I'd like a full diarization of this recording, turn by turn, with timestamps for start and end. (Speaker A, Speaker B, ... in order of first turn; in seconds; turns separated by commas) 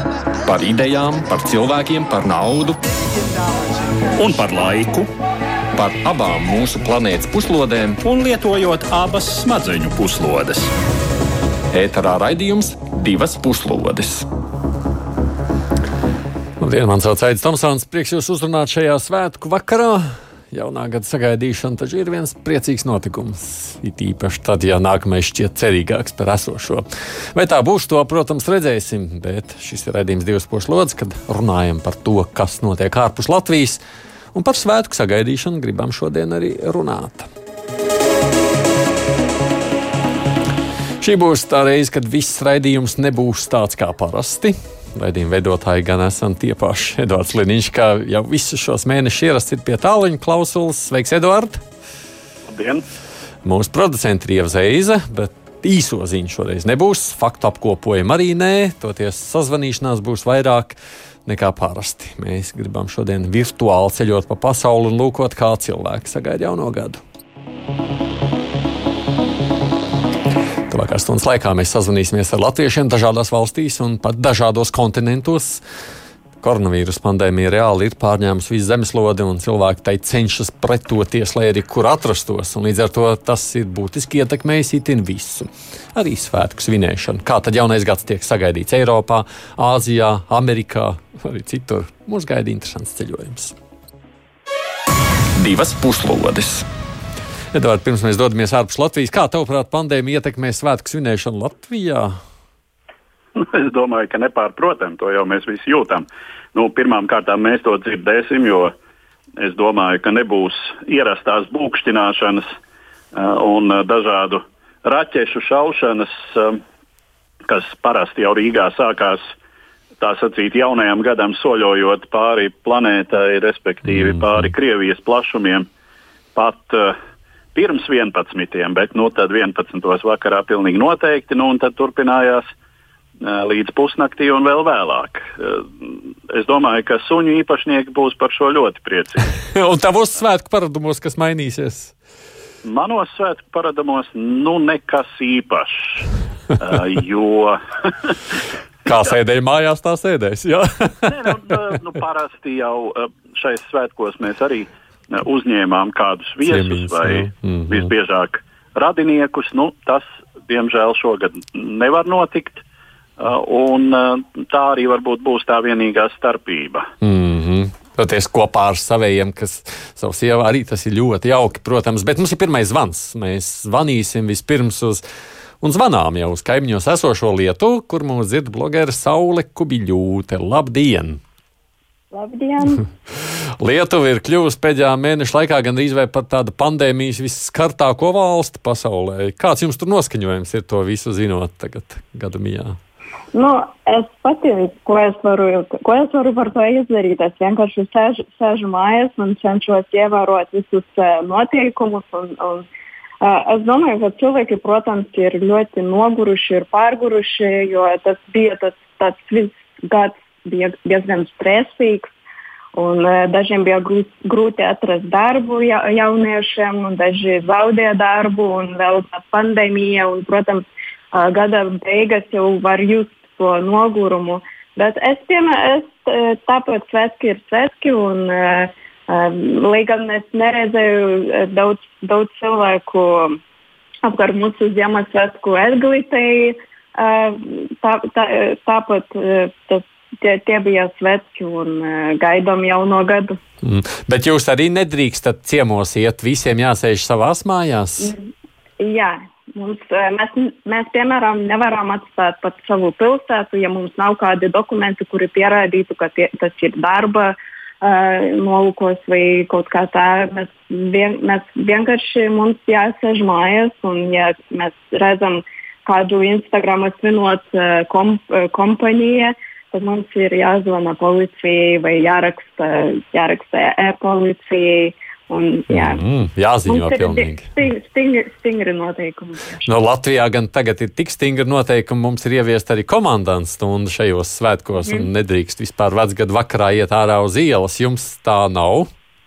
Speaker A: 0.4-2.8, Speaker B: 4.2-5.1, Speaker A: 5.7-8.0, Speaker B: 8.0-10.7, Speaker A: 11.7-14.2, Speaker C: 16.6-33.8, Speaker C: 34.3-37.3, Speaker C: 41.0-51.6, Speaker D: 52.5-52.8, Speaker C: 53.4-67.0, Speaker C: 70.7-75.6, Speaker C: 76.4-93.5, Speaker A: 95.3-96.6, Speaker C: 97.5-102.2, Speaker D: 103.3-108.7, Speaker D: 109.4-112.5, Speaker D: 113.1-116.6, Speaker D: 117.5-119.3, Speaker D: 120.0-125.7, Speaker C: 123.8-124.5, Speaker D: 126.3-127.0, Speaker D: 127.5-132.5, Speaker D: 133.2-139.3, Speaker C: 139.5-141.9, Speaker D: 142.6-146.1, Speaker D: 146.6-148.2, Speaker C: 148.8-151.1, Speaker D: 151.1-162.6, Speaker C: 156.4-157.9, Speaker D: 163.2-166.9, Speaker C: 167.0-175.0, Speaker C: 175.6-181.2, Speaker E: 182.1-182.8, Speaker C: 183.6-192.8, Speaker E: 193.3-202.7, Speaker E: 203.2-212.1, Speaker E: 212.7-233.4, Speaker E: 234.0-243.4, Speaker C: 243.6-248.1, Speaker E: 248.8-276.0, Speaker C: 275.7-277.5, Speaker E: 276.6-279.7, Speaker C: 279.6-288.9, Speaker E: 284.8-285.1